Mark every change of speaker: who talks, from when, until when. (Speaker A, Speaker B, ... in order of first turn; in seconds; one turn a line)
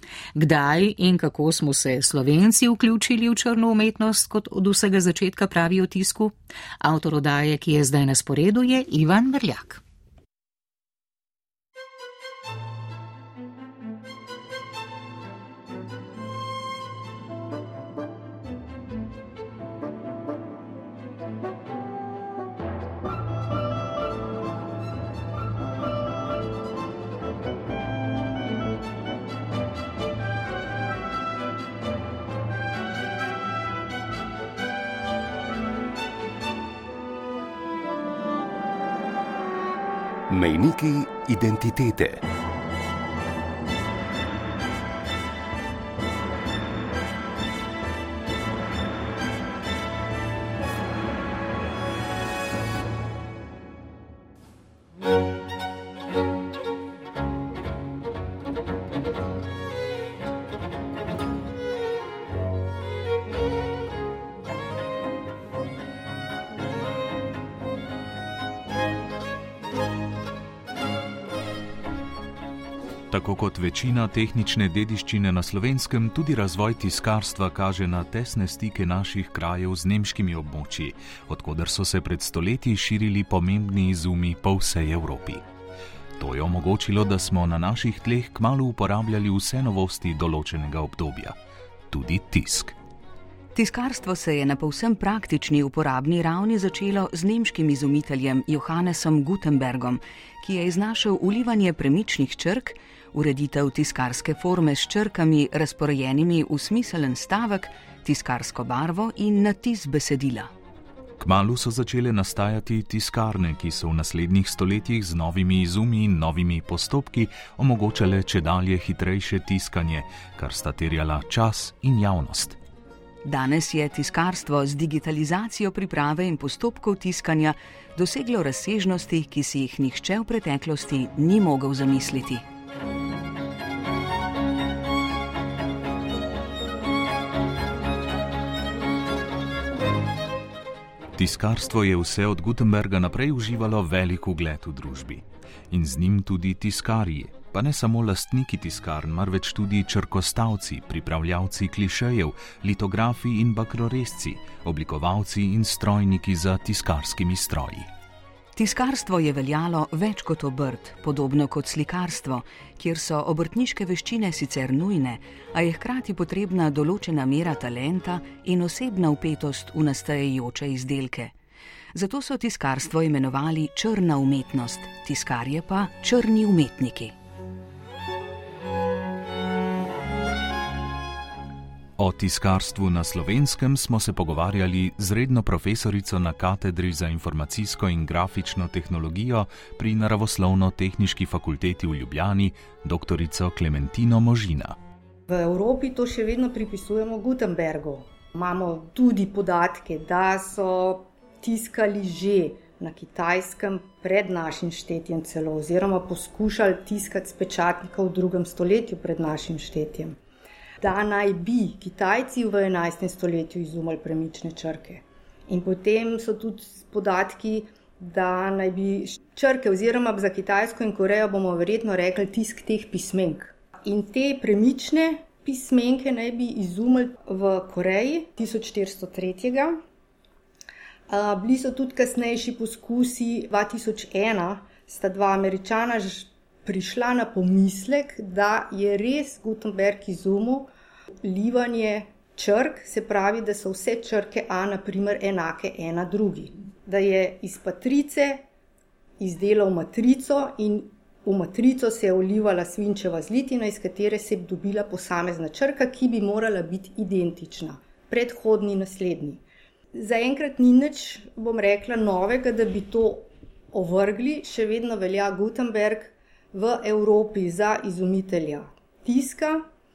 Speaker A: 0.3-9.8
Speaker B: 40.3-42.2
Speaker C: 73.1-85.4
Speaker C: 86.2-91.4
Speaker C: 91.9-92.8
Speaker D: 93.5-110.5
Speaker C: 111.2-122.6
Speaker D: 123.2-132.4
Speaker C: 141.1-157.9
Speaker D: 158.6-171.3
Speaker D: 171.9-177.2
Speaker C: 182.0-194.8
Speaker E: 195.3-210.2
Speaker E: 210.8-229.8
Speaker E: 231.1-240.7
Speaker E: 241.2-248.4
Speaker E: 249.2-259.4
Speaker E: 259.9-269.6